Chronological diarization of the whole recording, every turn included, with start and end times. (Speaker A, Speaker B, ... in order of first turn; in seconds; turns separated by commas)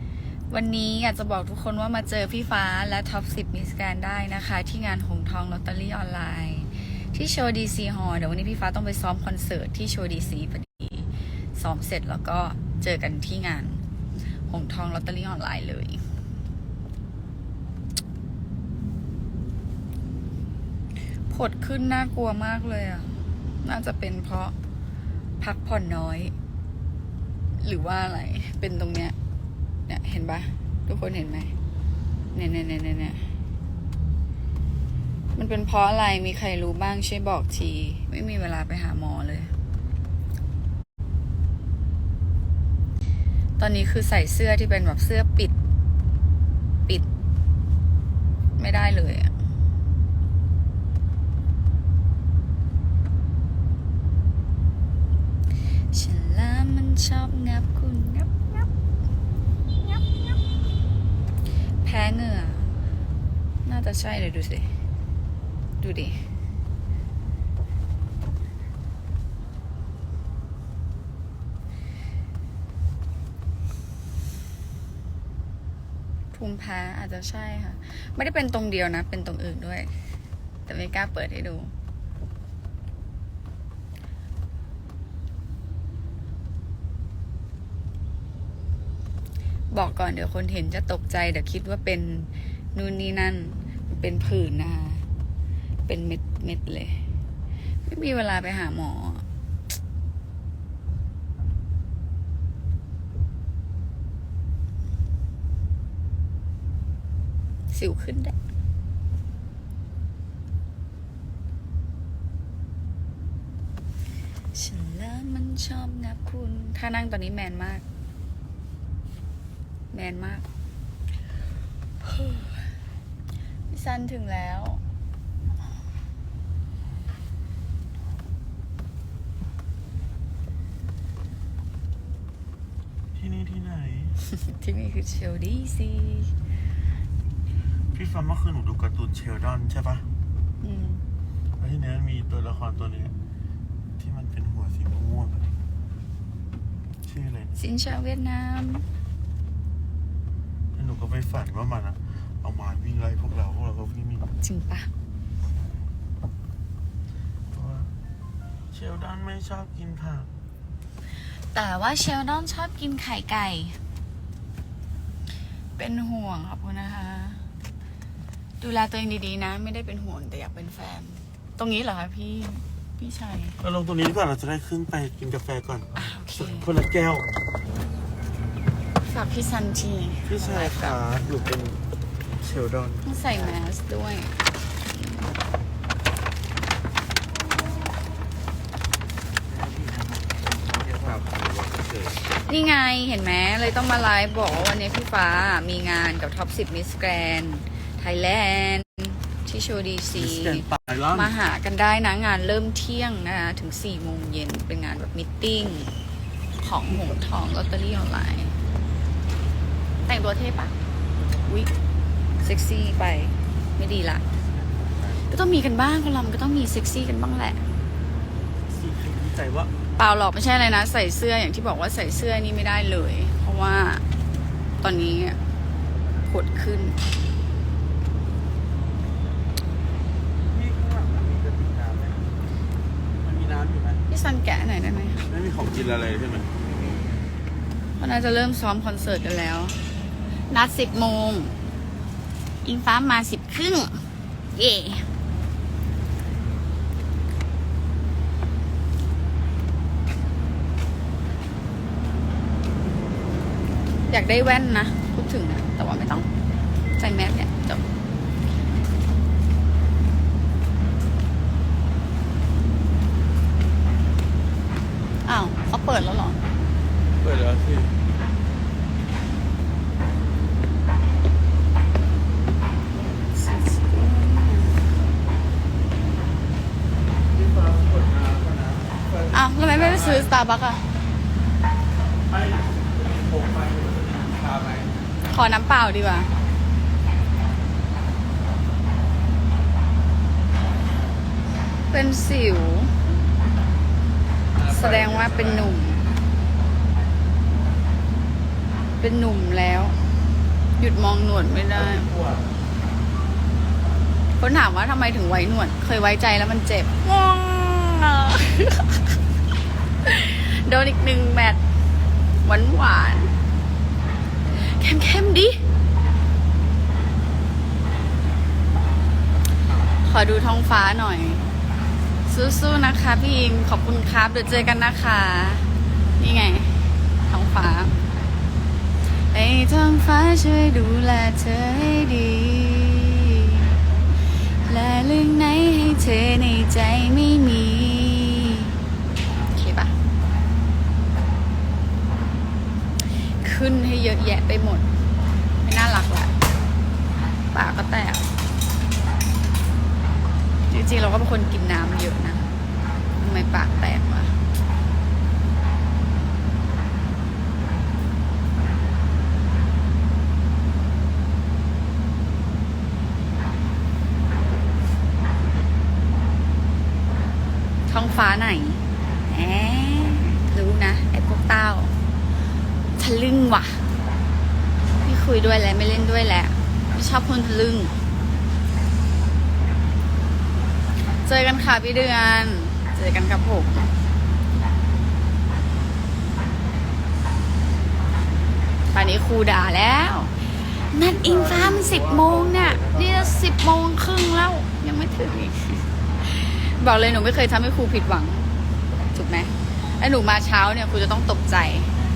Speaker A: 0.5-13.8, Speaker A: 14.5-16.0, Speaker A: 21.3-24.5, Speaker A: 25.4-26.3, Speaker A: 27.6-29.1, Speaker A: 29.9-31.5, Speaker A: 32.3-33.2, Speaker A: 35.3-39.5, Speaker A: 43.6-45.5, Speaker A: 48.6-49.3, Speaker A: 55.9-58.7, Speaker A: 61.8-62.7, Speaker A: 63.6-64.7, Speaker A: 65.8-66.2, Speaker A: 76.3-79.9, Speaker A: 80.7-81.7, Speaker A: 89.7-95.0, Speaker A: 95.9-97.0, Speaker A: 97.8-99.2, Speaker A: 107.7-108.3, Speaker A: 114.5-117.8, Speaker A: 119.9-120.5, Speaker A: 122.0-122.5, Speaker A: 123.7-124.8, Speaker B: 133.1-134.2, Speaker A: 134.2-136.3, Speaker B: 137.9-140.1, Speaker A: 140.6-141.1, Speaker B: 141.6-143.1, Speaker B: 144.0-145.5, Speaker B: 147.0-147.6, Speaker A: 147.6-148.8, Speaker B: 150.7-154.3, Speaker A: 154.4-154.9, Speaker B: 157.5-157.9, Speaker B: 158.7-160.3, Speaker A: 161.5-163.8, Speaker A: 165.8-167.4, Speaker A: 168.6-173.6, Speaker B: 173.6-177.2, Speaker A: 175.9-176.7, Speaker A: 179.0-181.0, Speaker B: 180.3-181.8, Speaker B: 182.4-183.1, Speaker A: 183.0-184.3, Speaker A: 184.9-185.3, Speaker B: 190.9-192.2, Speaker A: 192.2-205.9, Speaker B: 200.1-201.3, Speaker A: 206.6-208.5, Speaker A: 210.1-210.7, Speaker A: 211.4-211.7, Speaker A: 212.4-214.2, Speaker A: 215.2-217.6, Speaker B: 218.7-219.8, Speaker A: 220.0-224.0, Speaker A: 224.8-225.4, Speaker A: 226.3-227.0, Speaker B: 230.5-232.2, Speaker B: 233.2-234.0, Speaker A: 234.1-235.2, Speaker B: 235.3-236.5, Speaker A: 238.0-239.8, Speaker A: 240.5-241.5, Speaker A: 242.6-244.0, Speaker A: 244.5-245.1, Speaker A: 254.1-256.3, Speaker A: 257.0-257.8, Speaker A: 265.2-266.4, Speaker B: 267.2-267.9, Speaker A: 273.3-274.9, Speaker B: 277.3-280.3, Speaker A: 279.3-280.8, Speaker B: 282.3-284.9, Speaker A: 285.3-286.3, Speaker A: 291.9-292.9, Speaker B: 294.5-295.7, Speaker A: 294.7-296.0, Speaker A: 299.0-299.9, Speaker A: 300.8-302.1, Speaker B: 301.7-302.4, Speaker A: 304.4-309.2, Speaker A: 310.0-311.6, Speaker A: 312.4-313.3, Speaker A: 314.5-315.6, Speaker A: 320.0-321.4, Speaker A: 322.3-325.7, Speaker A: 326.2-327.9, Speaker A: 329.3-333.7, Speaker A: 334.4-338.8, Speaker A: 339.5-339.9, Speaker A: 343.1-344.9, Speaker A: 345.6-346.3, Speaker A: 347.5-348.3, Speaker A: 350.7-352.5, Speaker A: 353.2-354.3, Speaker A: 367.9-371.9, Speaker A: 373.0-373.8, Speaker A: 375.0-377.9, Speaker A: 381.2-383.9, Speaker A: 388.9-398.5, Speaker B: 391.2-393.2, Speaker A: 399.1-401.9